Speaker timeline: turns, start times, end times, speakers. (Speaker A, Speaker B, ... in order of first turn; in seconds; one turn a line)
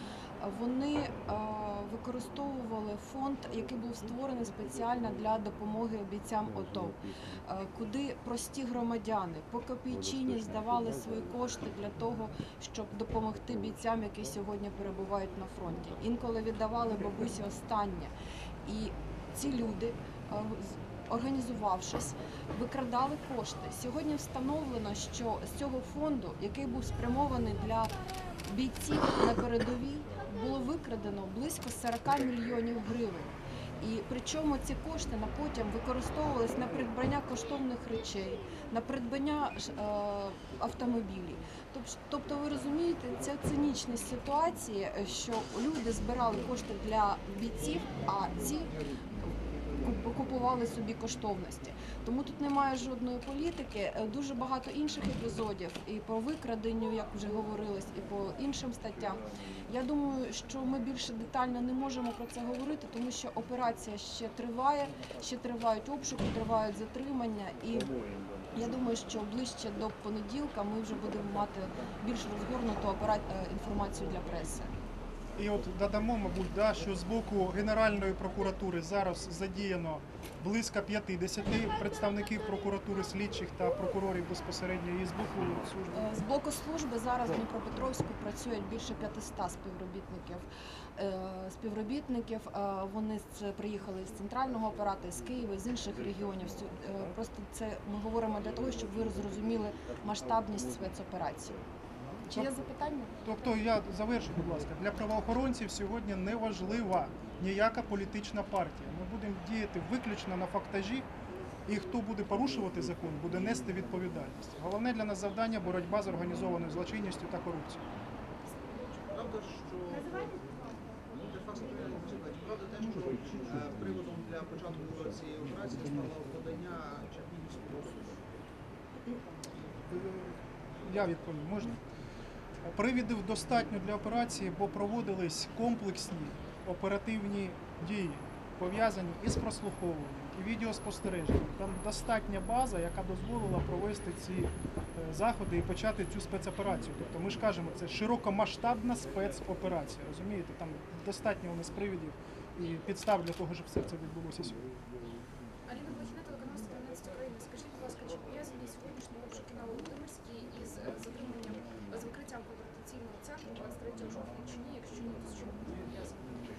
Speaker A: 0.4-18.1
Speaker A: 18.6-27.9
Speaker A: 28.4-67.9
Speaker A: 68.5-74.7
Speaker B: 75.3-86.2
Speaker A: 85.9-101.5
Speaker A: 102.2-103.2
Speaker B: 103.2-111.1
Speaker B: 111.7-117.8
Speaker C: 118.9-120.4
Speaker C: 121.2-128.2
Speaker B: 129.9-131.8
Speaker B: 132.6-154.7
Speaker D: 155.7-166.4